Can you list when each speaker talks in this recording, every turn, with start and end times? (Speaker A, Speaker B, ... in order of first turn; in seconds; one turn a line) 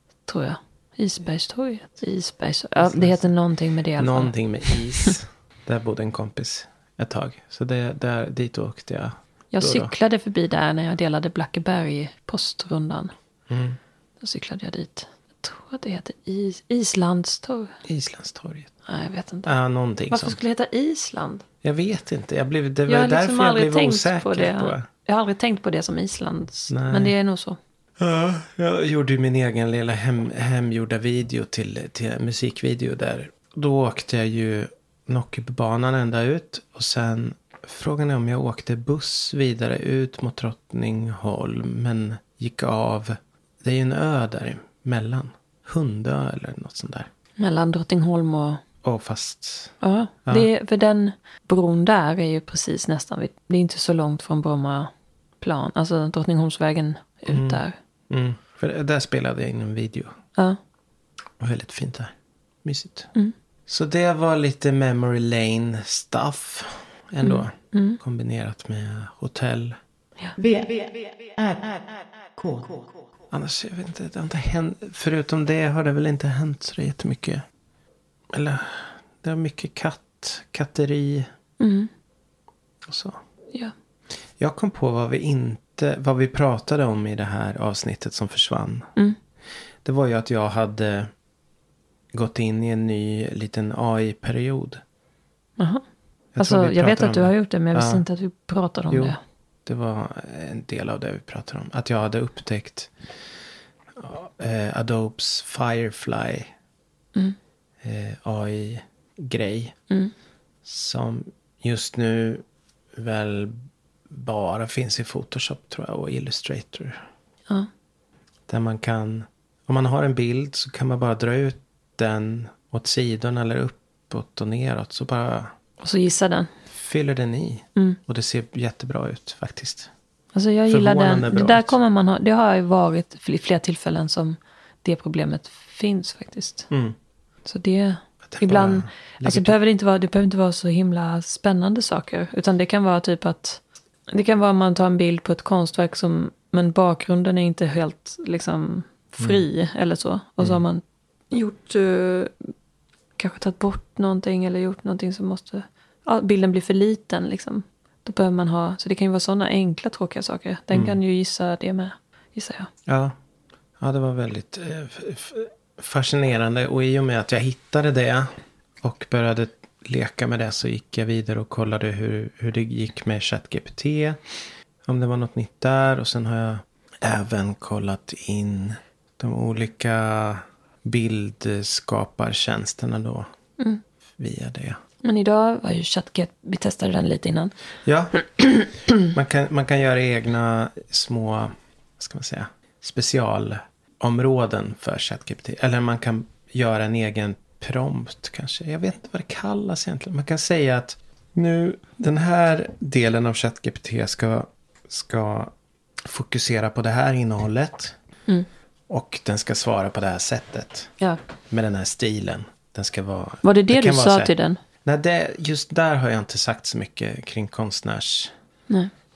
Speaker A: 0.3-4.3
Speaker B: 2.8-3.3
Speaker B: 4.0-9.9
Speaker A: 9.5-13.1
Speaker B: 13.5-13.8
Speaker A: 14.2-17.8
Speaker B: 17.8-18.7
Speaker A: 18.9-19.5
Speaker B: 19.4-20.4
Speaker A: 20.1-21.4
Speaker B: 21.6-24.9
Speaker A: 22.9-27.6
Speaker B: 26.7-27.1
Speaker B: 28.0-47.1
Speaker A: 47.4-48.6
Speaker B: 48.8-49.7
Speaker A: 49.8-57.8
Speaker B: 57.3-60.1
Speaker B: 61.4-63.1
Speaker B: 63.7-69.8
Speaker A: 67.2-68.0
Speaker C: 70.4-73.1
Speaker B: 73.3-77.4
Speaker B: 78.3-81.3
Speaker A: 81.6-81.9
Speaker B: 82.8-83.2
Speaker B: 84.4-88.9
Speaker B: 89.8-91.1
Speaker B: 92.1-94.8
Speaker A: 95.6-95.8
Speaker B: 96.3-98.0
Speaker A: 96.4-99.2
Speaker B: 99.7-102.9
Speaker B: 103.9-106.5
Speaker B: 107.8-109.7
Speaker B: 110.6-112.4
Speaker B: 112.9-113.6
Speaker B: 114.1-117.0
Speaker B: 118.5-125.5
Speaker A: 125.8-126.5
Speaker B: 126.7-129.9
Speaker A: 130.3-136.7
Speaker B: 130.7-131.8
Speaker B: 136.7-136.9
Speaker A: 137.4-152.3
Speaker B: 138.3-139.5
Speaker A: 153.2-162.7
Speaker B: 160.7-161.0
Speaker B: 162.9-163.1
Speaker B: 163.8-174.2
Speaker B: 174.8-183.3
Speaker B: 184.2-184.8
Speaker A: 185.0-187.5
Speaker B: 187.8-188.2
Speaker A: 188.4-188.7
Speaker B: 189.0-207.9
Speaker B: 208.9-210.9
Speaker B: 211.5-214.3
Speaker A: 213.4-214.6
Speaker B: 214.8-218.3